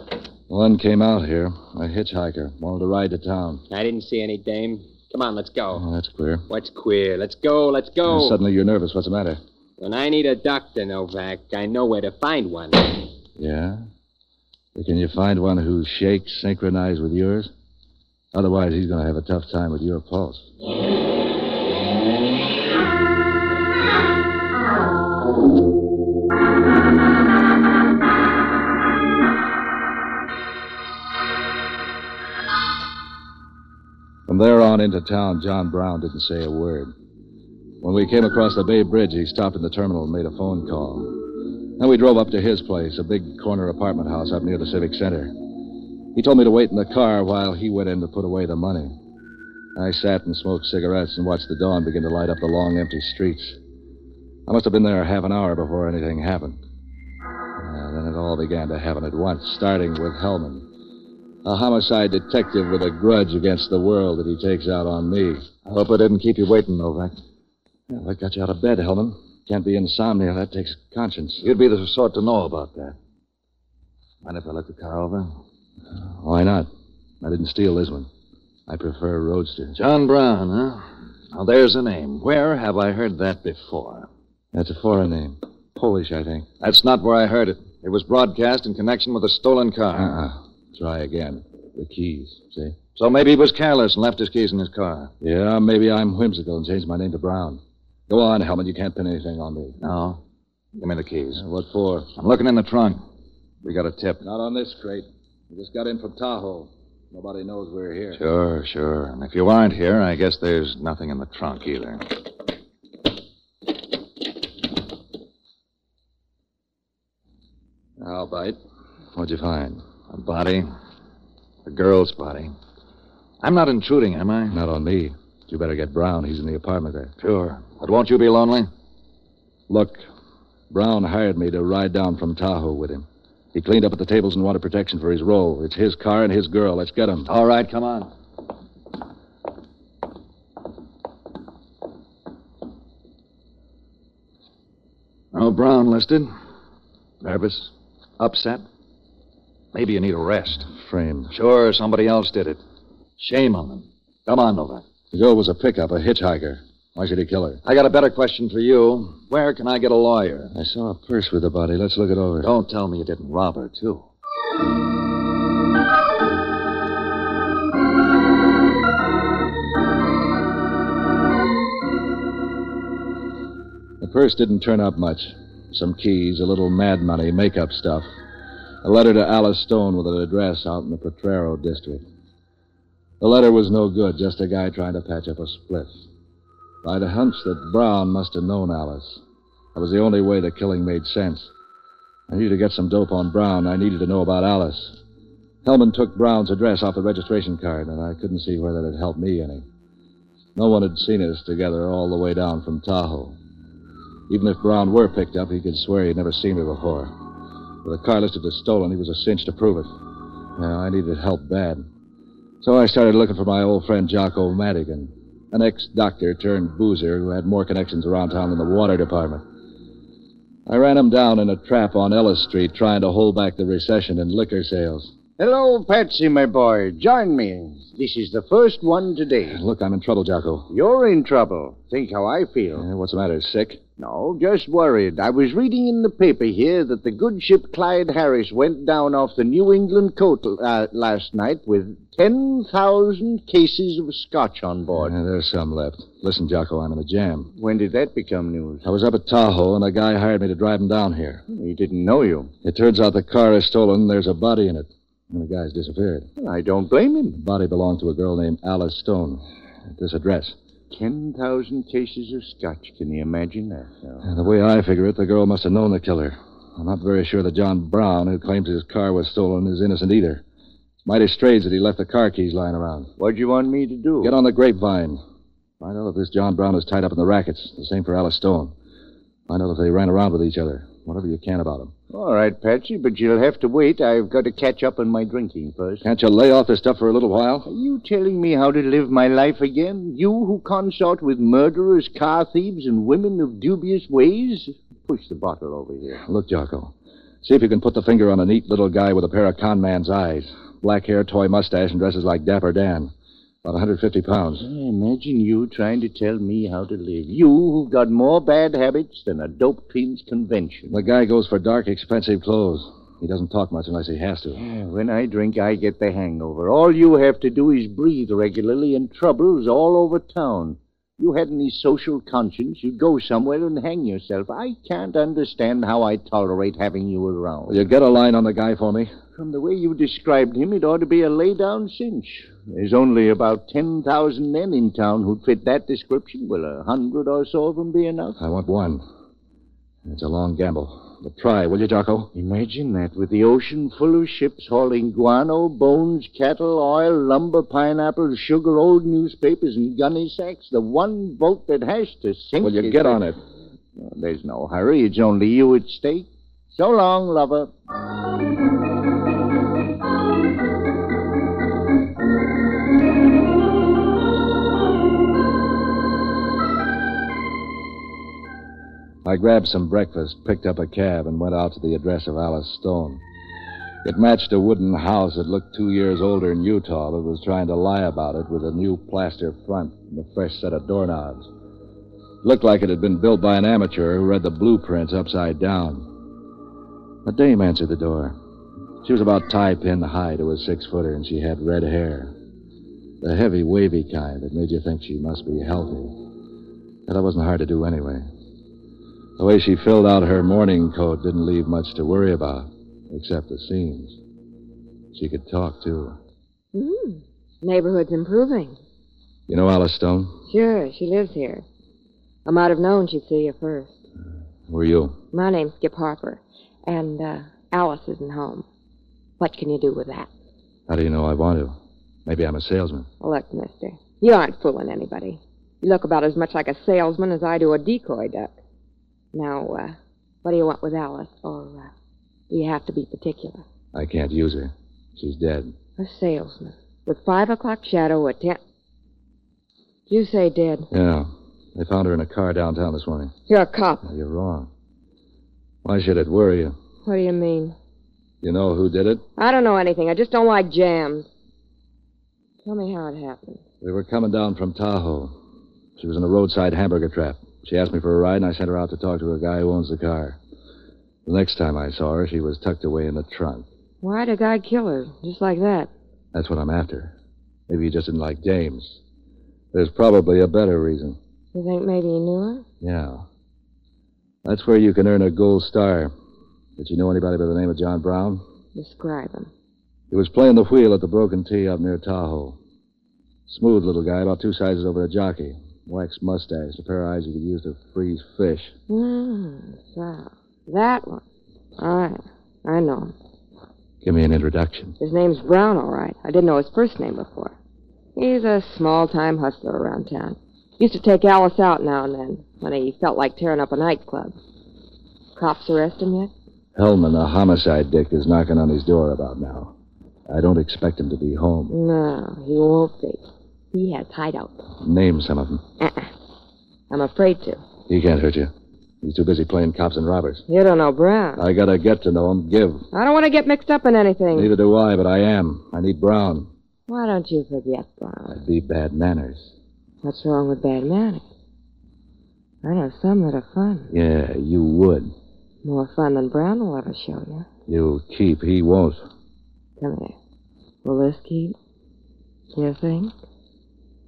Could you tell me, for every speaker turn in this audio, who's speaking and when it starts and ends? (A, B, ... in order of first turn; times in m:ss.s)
0:00.5-0:03.6 A
0:03.7-0:05.9 B
0:05.8-0:06.5 A
0:06.5-0:08.4 B
0:08.1-0:09.4 A
0:09.8-0:13.0 B
0:13.4-0:13.8 A
0:14.8-0:17.5 A
0:18.3-0:20.5 A
0:34.3-0:36.9 A
0:37.8-0:41.2 A
0:41.8-0:45.4 A
0:46.1-0:48.9 A
0:49.8-0:53.6 A
0:54.5-0:56.6 A
0:57.6-1:00.7 A
1:01.4-1:05.5 A
1:05.7-1:07.2 C
1:07.9-1:11.4 A
1:11.4-1:13.0 C
1:14.2-1:15.3 C
1:16.1-1:16.7 A
1:17.2-1:18.1 A
1:18.7-1:19.8 A
1:19.8-1:24.1 C
1:24.5-1:26.5 A
1:26.6-1:30.2 C
1:30.0-1:32.8 A
1:33.0-1:35.1 C
1:35.2-1:39.8 A
1:39.8-1:40.2 C
1:40.8-1:41.4 C
1:41.4-1:42.1 A
1:42.2-1:43.0 C
1:43.6-1:44.2 C
1:44.2-1:48.2 A
1:48.2-1:52.0 C
1:58.0-1:58.6 A
1:59.2-1:59.8 A
2:00.1-2:00.7 C
2:01.7-2:02.6 C
2:03.4-2:04.6 C
2:04.5-2:07.1 A
2:07.2-2:08.7 C
2:09.7-2:10.0 A
2:10.7-2:17.3 A
2:17.3-2:18.1 C
2:25.3-2:26.3 C
2:27.2-2:28.6 C
2:29.7-2:30.7 C
2:30.7-2:31.3 A
2:31.3-2:32.6 C
2:33.2-2:34.8 C
2:35.1-2:37.6 A
2:37.6-2:40.5 C
2:40.6-2:42.5 A
2:42.4-2:44.0 C
2:54.0-2:58.1 A
2:58.8-3:02.0 A
3:03.2-3:06.0 A
3:06.8-3:09.2 A
3:09.8-3:11.5 A
3:12.3-3:15.0 A
3:15.6-3:19.7 A
3:20.6-3:23.4 A
3:24.3-3:27.1 A
3:27.8-3:29.9 A
3:30.6-3:31.8 A
3:32.6-3:39.4 A
3:40.7-3:45.1 A
3:45.4-3:49.6 D
3:49.5-3:50.7 A
3:50.7-3:52.8 D
3:52.8-3:53.8 A
3:54.0-4:05.1 D
4:05.0-4:07.5 A
4:07.6-4:08.8 D
4:08.8-4:11.4 A
4:11.5-4:12.5 D
4:12.6-4:16.3 A
4:16.4-4:17.4 D
4:17.4-4:19.4 A
4:20.0-4:20.6 A
4:20.9-4:24.3 D
4:24.2-4:30.4 A
4:31.0-4:33.1 A
4:33.2-4:34.3 D
4:34.2-4:35.2 A
4:35.8-4:38.7 A
4:39.5-4:41.9 A
4:42.1-4:46.0 D
4:46.0-4:47.7 A
4:47.7-4:56.2 D
4:56.2-5:03.1 A
5:03.6-5:04.7 A
5:04.6-5:11.0 D
5:10.9-5:14.6 A
5:14.6-5:27.8 D
5:27.7-5:29.1 A
5:29.4-5:38.4 D
5:38.4-5:39.0 A
5:40.0-5:42.3 A
5:42.4-5:53.2 D
5:52.6-5:53.4 A
5:54.0-5:57.7 D
6:09.2-6:13.2 A
6:14.0-6:21.5 A
6:22.4-6:26.1 A
6:27.2-6:28.4 A
6:29.0-6:32.4 A
6:33.2-6:36.2 A
6:37.1-6:38.2 A
6:39.4-6:44.2 A
6:45.1-6:46.2 A
6:46.7-6:48.8 E
6:49.5-6:50.4 A
6:50.5-6:51.6 E
6:52.5-6:54.0 E
6:54.7-6:55.2 A
6:55.3-6:58.6 E
6:59.4-7:00.3 E
7:00.9-7:03.1 A
7:03.2-7:08.6 E
7:09.3-7:11.9 E
7:12.5-7:13.6 E
7:13.9-7:15.8 A
7:16.0-7:18.6 E
7:20.1-7:20.9 E
7:20.9-7:23.3 A
7:23.5-7:24.1 E
7:24.0-7:24.7 A
7:25.8-7:26.8 A
7:27.0-7:27.8 E
7:28.4-7:29.2 A
7:29.4-7:31.3 E
7:32.6-7:33.6 E
7:33.8-7:35.4 A
7:36.0-7:40.4 A
7:41.3-7:43.7 A
7:44.0-7:45.9 E
7:46.3-7:47.1 A
7:47.7-7:49.0 A
7:49.7-7:51.2 A
7:51.5-7:52.6 E
7:52.8-7:53.3 A
7:54.4-7:56.1 A
7:56.8-7:58.4 A
7:58.8-7:59.5 E
8:00.1-8:02.6 A
8:03.5-8:08.8 A
8:08.9-8:11.2 E
8:11.8-8:13.1 E
8:14.0-8:15.0 A
8:15.0-8:17.5 E
8:18.2-8:24.4 E
8:25.4-8:26.3 E
8:26.8-8:29.7 A
8:30.3-8:31.7 A
8:31.7-8:34.6 E
8:34.8-8:35.6 A
8:35.8-8:36.1 E
8:36.9-8:37.6 E
8:37.9-8:38.5 A
8:39.0-8:40.4 A
8:40.5-8:41.4 E
8:41.4-8:42.9 A
8:42.9-8:44.5 E
8:44.3-8:46.5 A
8:46.9-8:48.4 E
8:48.3-8:49.5 A
8:50.0-8:51.2 E
8:52.6-8:53.9 E
8:53.9-8:55.1 A
8:55.6-8:57.5 E
8:57.7-8:59.0 A
8:59.8-9:00.2 E
9:00.8-9:01.6 E
9:02.6-9:03.1 E